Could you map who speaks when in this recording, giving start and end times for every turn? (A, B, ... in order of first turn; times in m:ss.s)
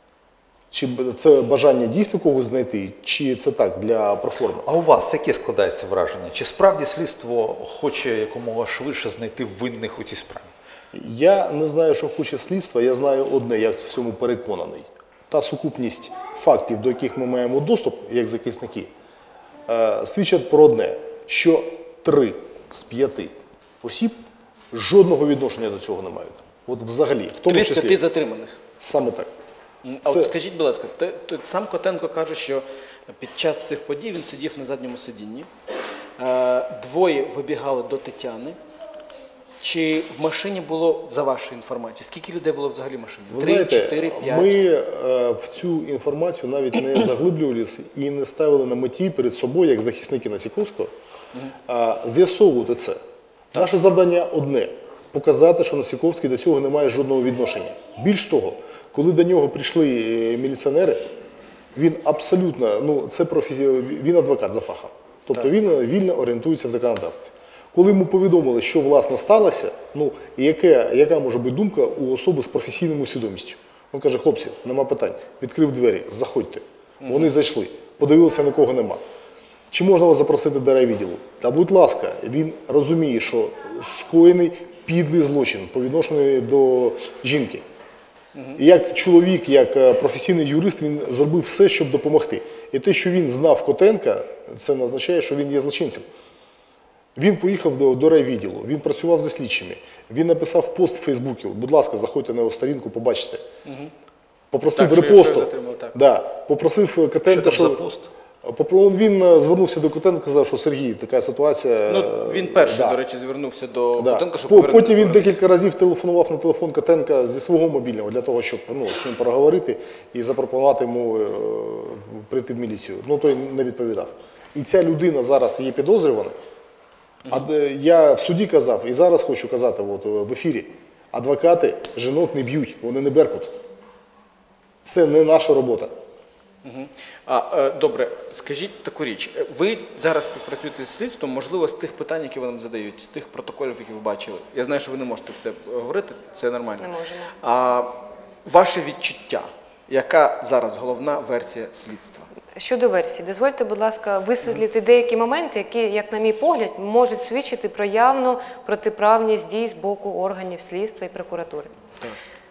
0:00.7-0:04.7 A
0:04.6-0:10.5 B
0:10.9-0:18.9 A
0:19.6-0:24.2 A
0:24.7-0:28.0 A
0:27.4-0:28.6 C
0:28.8-0:29.3 A
0:29.8-0:35.5 C
0:30.0-0:30.3 A
0:36.2-0:38.6 C
0:39.6-0:44.6 C
0:43.3-0:50.9 A
0:51.7-0:53.0 A
0:53.5-1:01.1 A
1:01.7-1:19.0 A
1:17.0-1:17.3 C
1:19.7-1:27.6 A
1:28.3-1:28.6 C
1:28.6-1:36.1 A
1:37.2-1:43.4 A
1:43.6-1:43.9 C
1:44.5-1:47.8 A
1:44.8-1:46.0 C
1:47.2-1:48.1 B
1:48.4-1:53.0 A
1:51.9-1:55.4 C
1:54.0-2:06.4 A
2:07.3-2:13.6 A
2:14.8-2:15.9 A
2:16.6-2:26.9 C
2:26.8-2:27.3 D
2:27.4-2:32.3 C
2:32.5-2:41.7 D